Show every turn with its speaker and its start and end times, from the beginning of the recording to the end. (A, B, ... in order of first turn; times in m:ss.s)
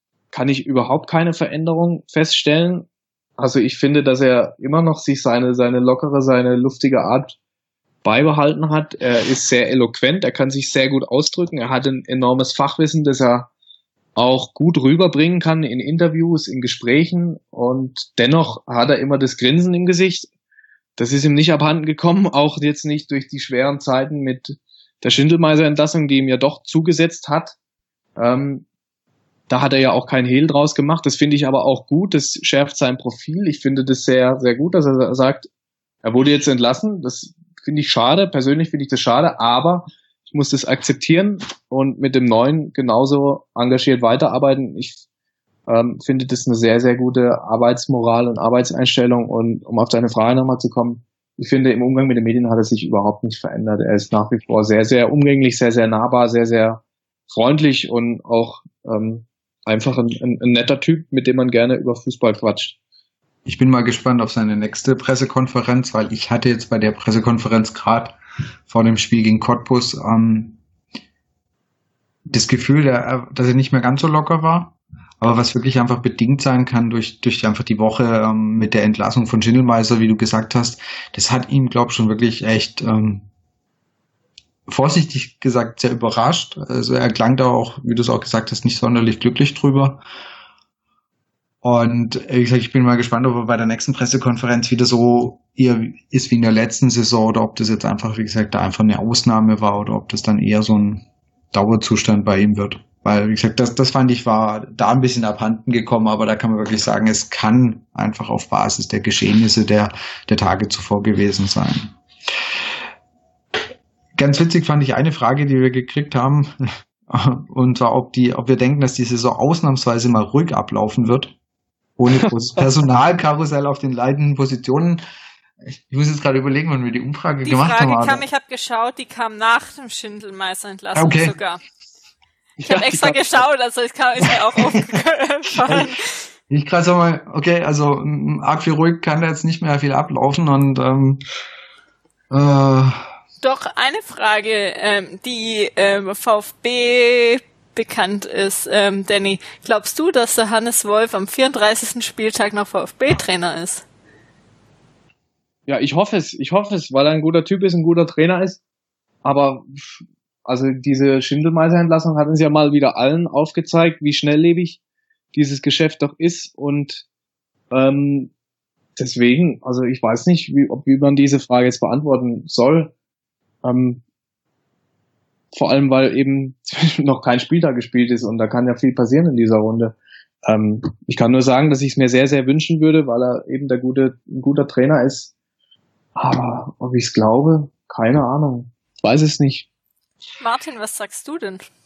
0:00.3-0:02.9 A
0:03.4-0:07.4 A
0:08.0-0:13.5 A
0:14.2-0:20.3 A
0:21.0-0:27.6 A
0:28.2-0:28.7 A
0:29.5-0:35.5 A
0:36.0-0:45.0 A
0:45.7-1:02.8 A
1:03.5-1:08.2 B
1:08.7-1:10.6 B
1:12.3-1:23.3 B
1:24.7-1:30.0 B
1:31.6-1:51.9 B
1:54.2-1:56.6 B
1:57.1-2:01.4 B
2:02.0-2:05.0 B
2:02.1-2:02.7 A
2:05.7-2:08.2 B
2:07.5-2:11.6 C
2:11.0-2:11.4 B
2:12.6-2:13.4 A
2:12.7-2:16.2 C
2:16.5-2:21.2 B
2:22.3-2:23.1 B
2:23.4-2:33.9 C
2:35.7-2:38.6 A
2:39.2-2:44.8 A
2:45.3-2:47.0 A
2:47.7-2:48.3 A
2:49.0-2:52.9 A
2:53.6-2:54.0 A
2:55.5-3:05.3 A
3:06.2-3:09.7 A
3:10.4-3:11.7 C